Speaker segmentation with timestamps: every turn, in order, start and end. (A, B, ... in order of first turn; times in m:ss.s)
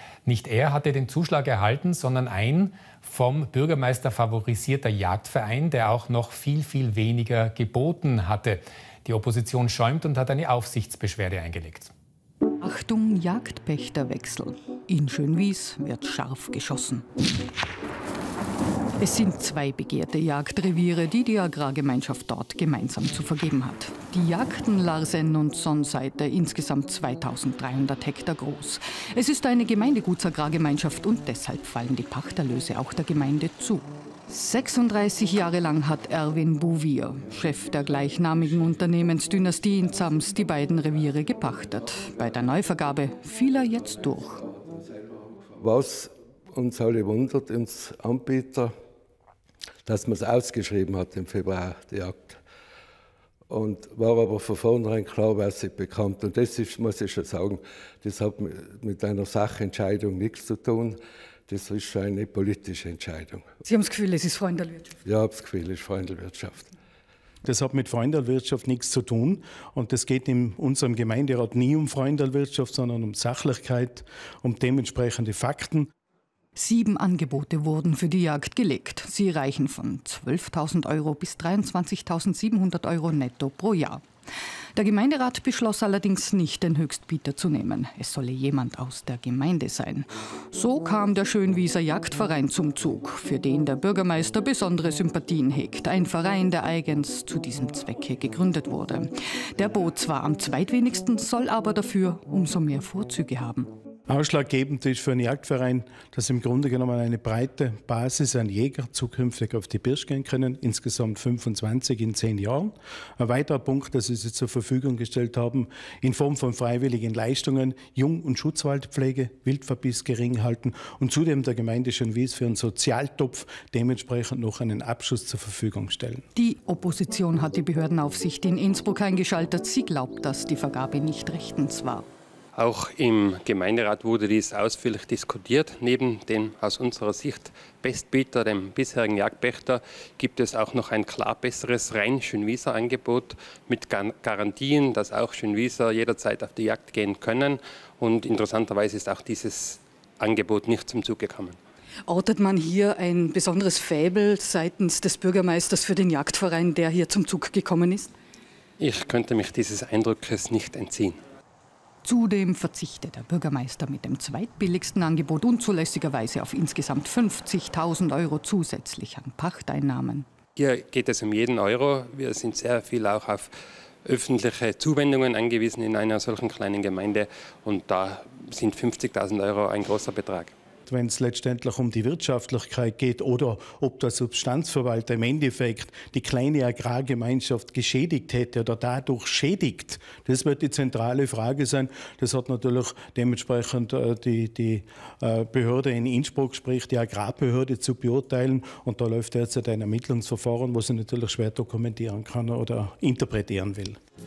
0:00.2-0:11.9 A
0:12.6-0:17.0 B
0:19.0-0:44.5 B
0:45.6-0:48.7 C
0:49.8-0:52.4 C
0:53.5-1:03.5 C
1:03.6-1:04.9 B
1:05.0-1:06.7 C
1:07.4-1:15.9 D
1:16.5-1:24.0 B
1:24.7-1:43.7 B
1:44.1-2:06.2 D
2:06.4-2:12.0 B
2:12.5-2:31.6 E
2:32.0-2:38.1 B
2:38.8-2:41.2 E
2:42.0-2:50.2 B
2:50.6-2:53.5 E
2:54.0-3:00.5 E
3:00.9-3:24.0 D